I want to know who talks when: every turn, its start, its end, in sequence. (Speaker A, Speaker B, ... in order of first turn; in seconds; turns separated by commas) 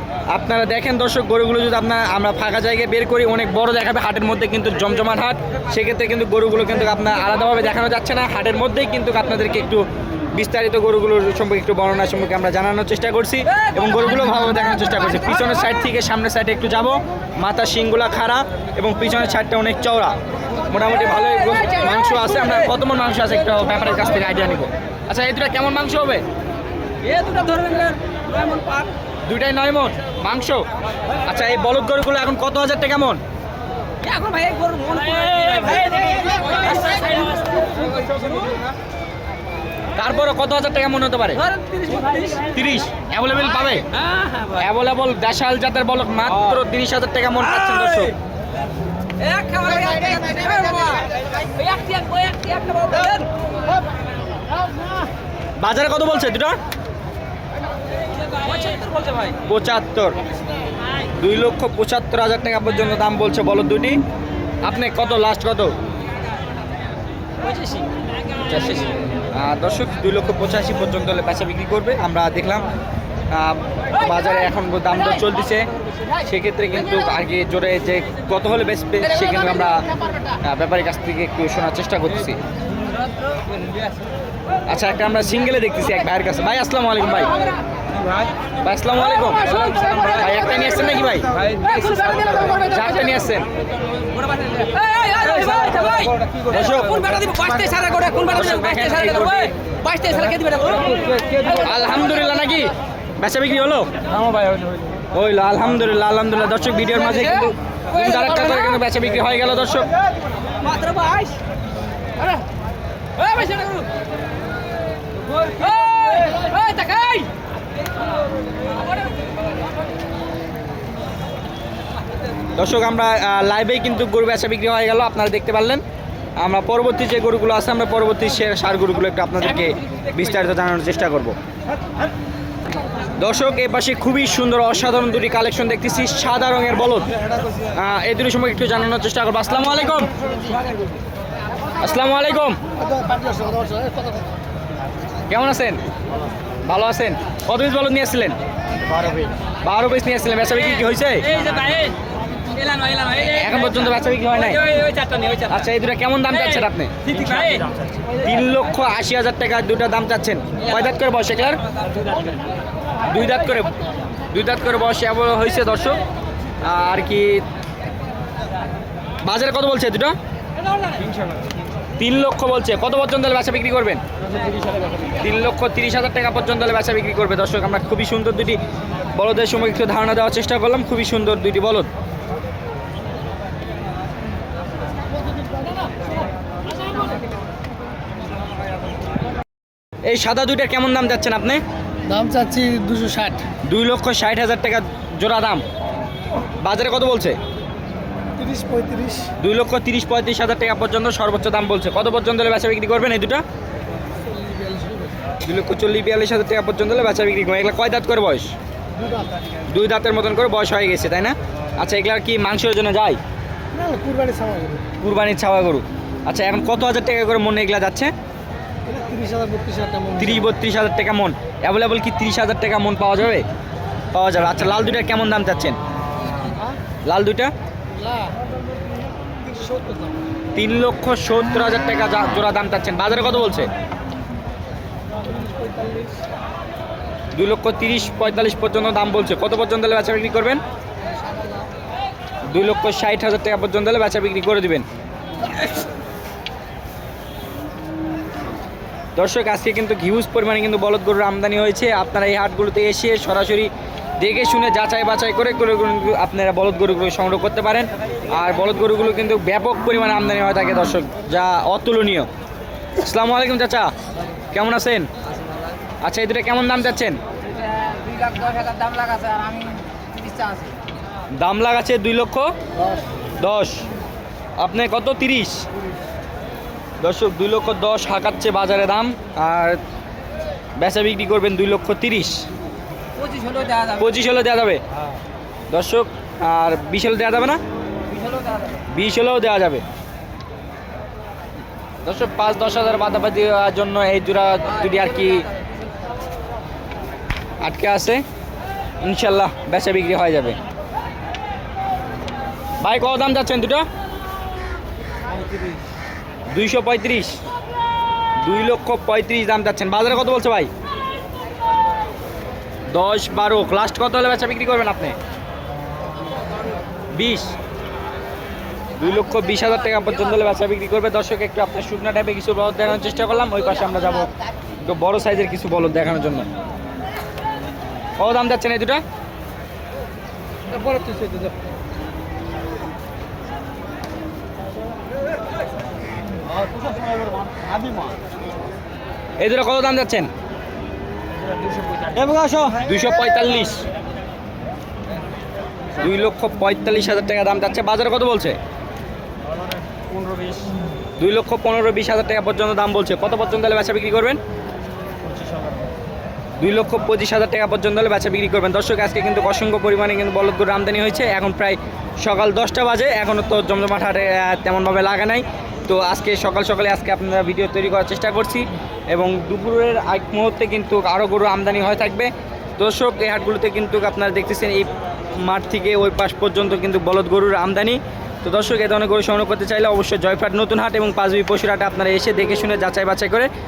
Speaker A: 0.3-20.1, Speaker A: 20.7-26.2, Speaker B: 27.0-28.9, Speaker A: 29.2-30.6, Speaker A: 31.2-33.2, Speaker B: 34.0-38.7, Speaker A: 40.0-41.4, Speaker B: 41.4-42.5, Speaker A: 42.5-43.9, Speaker B: 43.9-44.6, Speaker A: 44.6-48.1, Speaker B: 49.2-53.3, Speaker A: 55.6-56.5, Speaker B: 58.2-59.4, Speaker A: 59.5-60.2, Speaker A: 61.1-64.0, Speaker A: 64.6-65.7, Speaker B: 67.4-67.9, Speaker A: 68.5-72.7, Speaker A: 73.3-79.9, Speaker A: 80.4-82.4, Speaker B: 82.8-83.9, Speaker A: 84.7-87.3, Speaker A: 88.6-91.3, Speaker B: 89.5-90.6, Speaker B: 91.3-93.2, Speaker A: 92.5-93.5, Speaker B: 94.1-101.7, Speaker A: 96.5-97.2, Speaker A: 98.3-99.5, Speaker A: 101.5-103.9, Speaker B: 104.3-104.7, Speaker A: 105.1-109.9, Speaker B: 107.0-108.8, Speaker B: 110.6-111.4, Speaker B: 113.2-113.9, Speaker B: 115.3-117.3, Speaker A: 122.5-125.8, Speaker A: 126.4-131.3, Speaker A: 133.2-137.1, Speaker A: 137.7-140.1, Speaker A: 141.8-142.6, Speaker C: 142.8-144.2, Speaker A: 145.3-145.8, Speaker A: 146.6-148.3, Speaker A: 149.2-151.3, Speaker B: 151.2-155.6, Speaker A: 153.2-154.7, Speaker A: 155.5-157.1, Speaker B: 157.0-157.7, Speaker A: 158.2-161.6, Speaker A: 163.1-163.7, Speaker A: 164.3-166.0, Speaker A: 166.6-167.4, Speaker A: 169.2-170.1, Speaker A: 172.0-174.0, Speaker A: 175.2-178.6, Speaker A: 179.1-181.9, Speaker A: 190.1-191.6, Speaker C: 192.1-193.4, Speaker A: 193.7-195.6, Speaker A: 196.6-197.4, Speaker C: 198.4-199.3, Speaker A: 199.4-203.4, Speaker C: 204.3-205.1, Speaker A: 205.4-208.5, Speaker A: 209.7-213.2, Speaker C: 213.7-214.8, Speaker A: 215.0-218.1, Speaker C: 218.8-220.4, Speaker A: 220.1-223.4, Speaker A: 224.1-225.8, Speaker A: 227.0-227.5, Speaker C: 228.0-228.3, Speaker C: 229.4-230.1, Speaker A: 230.5-233.7, Speaker C: 235.3-236.1, Speaker A: 237.3-240.6, Speaker A: 242.5-244.8, Speaker A: 249.2-262.3, Speaker A: 263.0-263.9, Speaker A: 264.5-265.1, Speaker A: 266.0-267.2, Speaker B: 267.5-270.8, Speaker A: 271.4-272.5, Speaker A: 273.4-273.8, Speaker A: 274.6-275.6, Speaker A: 277.0-279.8, Speaker A: 280.8-282.4, Speaker B: 283.2-284.1, Speaker A: 284.0-284.8, Speaker A: 285.7-287.6, Speaker B: 288.2-288.7, Speaker A: 288.9-289.8, Speaker A: 292.0-295.4, Speaker B: 294.9-295.3, Speaker A: 297.6-298.2, Speaker A: 299.0-300.6, Speaker A: 302.8-303.9, Speaker A: 306.5-307.4, Speaker A: 308.4-310.7, Speaker A: 312.9-315.1, Speaker A: 317.1-317.5, Speaker A: 319.0-324.3, Speaker A: 324.8-326.5, Speaker A: 328.2-329.0, Speaker C: 330.7-331.3, Speaker B: 330.8-331.3, Speaker A: 339.4-340.3, Speaker A: 342.8-343.8, Speaker A: 346.0-348.6, Speaker A: 351.2-354.4, Speaker A: 356.6-383.5